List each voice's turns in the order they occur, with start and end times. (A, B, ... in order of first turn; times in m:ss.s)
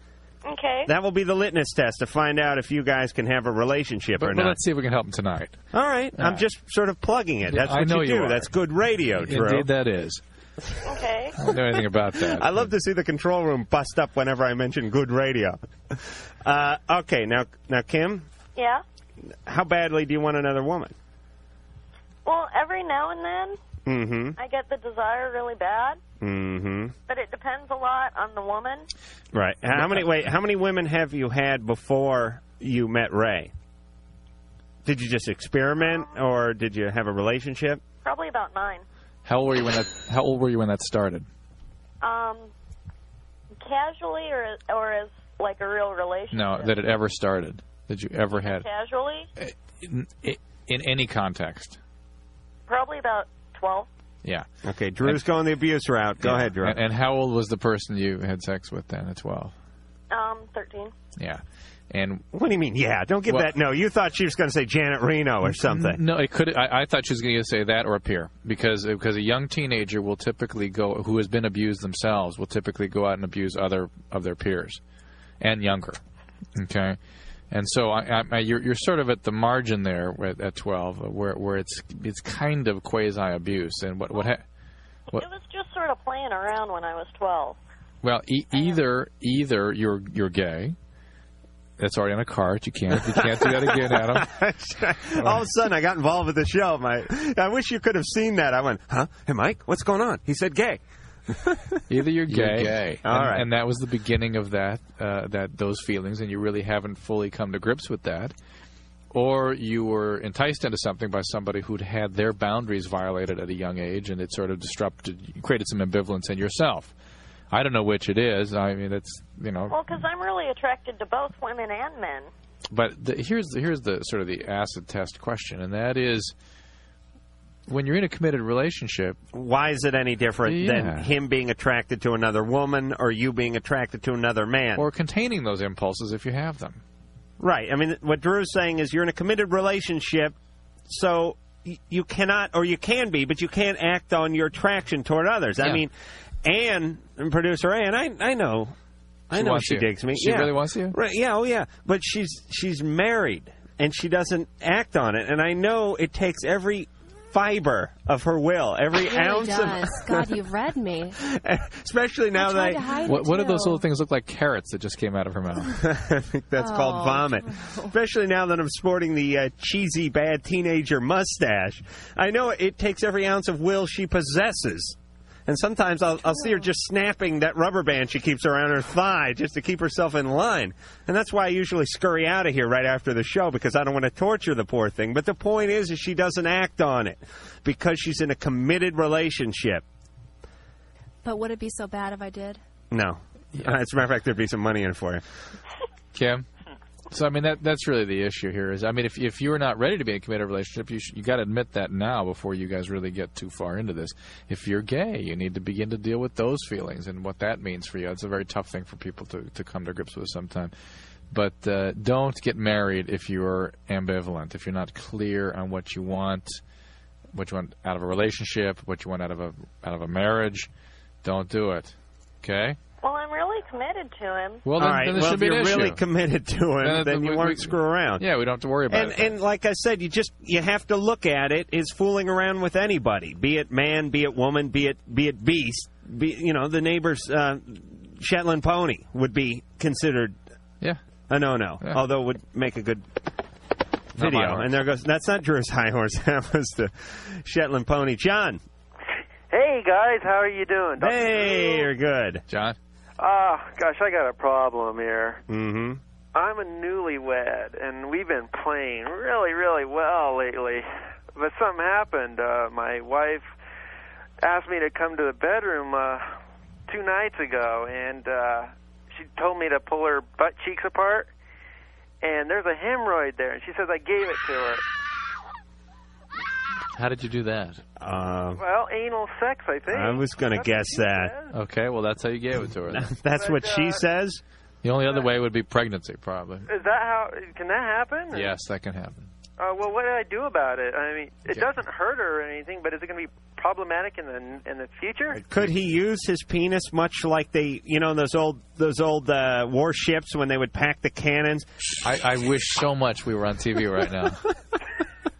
0:00.4-0:00.9 A
0:00.8-0:04.6 B
0:04.2-0:05.6 C
0:05.7-0:09.7 B
0:06.2-0:06.4 C
0:07.5-0:08.5 C
0:09.2-0:10.2 C
0:10.8-0:11.3 A
0:11.4-0:12.7 C
0:12.2-0:18.2 B
0:18.5-0:18.8 A
0:19.4-0:20.9 B
0:22.2-0:23.6 A
0:23.8-0:24.4 B
0:24.4-0:26.0 A
0:26.2-0:26.9 B
0:27.1-0:28.9 A
0:29.3-0:33.5 B
0:29.7-0:30.1 C
0:34.8-0:37.8 B
0:35.8-0:36.1 A
0:38.0-0:38.8 A
0:39.2-0:41.3 C
0:42.0-0:42.5 A
0:43.6-0:46.8 A
0:46.3-0:48.6 C
0:48.4-0:49.3 A
0:49.4-0:51.8 C
0:52.7-0:53.9 A
0:54.6-0:56.8 B
0:56.2-0:59.5 C
1:00.1-1:00.9 A
1:01.2-1:02.2 C
1:02.3-1:06.0 B
1:05.4-1:14.8 C
1:15.4-1:16.0 C
1:16.6-1:17.0 C
1:17.5-1:24.4 C
1:25.1-1:27.6 A
1:28.0-1:30.8 C
1:28.5-1:28.8 A
1:31.8-1:34.3 C
1:32.9-1:43.5 B
1:35.2-1:35.4 C
1:41.9-1:48.3 C
1:49.1-1:56.9 C
1:57.5-1:59.8 C
1:59.7-2:02.3 A
2:02.7-2:06.3 C
2:07.7-2:09.2 C
2:09.3-2:14.8 B
2:10.4-2:11.1 C
2:14.8-2:16.8 C
2:17.4-2:20.3 B
2:20.9-2:25.9 B
2:26.4-2:28.7 B
2:29.3-2:40.3 B
2:29.3-2:31.0 C
2:39.0-2:41.2 D
2:41.2-2:42.8 B
2:42.3-2:43.8 D
2:43.0-2:45.7 C
2:45.8-3:09.8 B
2:46.6-2:47.9 D
2:56.3-2:56.6 D
3:11.2-3:12.6 D
3:12.9-3:15.2 B
3:16.1-3:16.4 C
3:17.1-3:30.7 C
3:31.3-3:36.6 C
3:37.3-3:40.7 C
3:41.2-3:42.8 C
3:43.0-3:44.6 A
3:44.6-3:46.0 C
3:44.8-3:48.2 B
3:46.8-3:49.3 C
3:48.9-4:00.4 B
4:01.3-4:03.0 B
4:04.2-4:08.6 B
4:04.2-4:04.7 C
4:09.5-4:11.9 E
4:11.0-4:12.4 B
4:12.5-4:12.8 C
4:13.2-4:15.4 E
4:15.5-4:16.0 B
4:16.3-4:23.5 E
4:24.4-4:26.3 E
4:26.9-4:31.3 E
4:32.2-4:34.8 E
4:36.9-4:37.8 C
4:38.0-4:38.6 B
4:38.6-4:41.5 E
4:39.9-4:41.4 B
4:41.5-4:43.1 C
4:42.9-4:44.4 B
4:43.3-4:44.0 E
4:44.8-4:46.7 C
4:45.0-4:45.3 E
4:46.6-4:48.5 E
4:48.3-4:49.3 C
4:49.6-4:55.4 E
4:55.3-5:01.7 B
5:02.0-5:04.4 C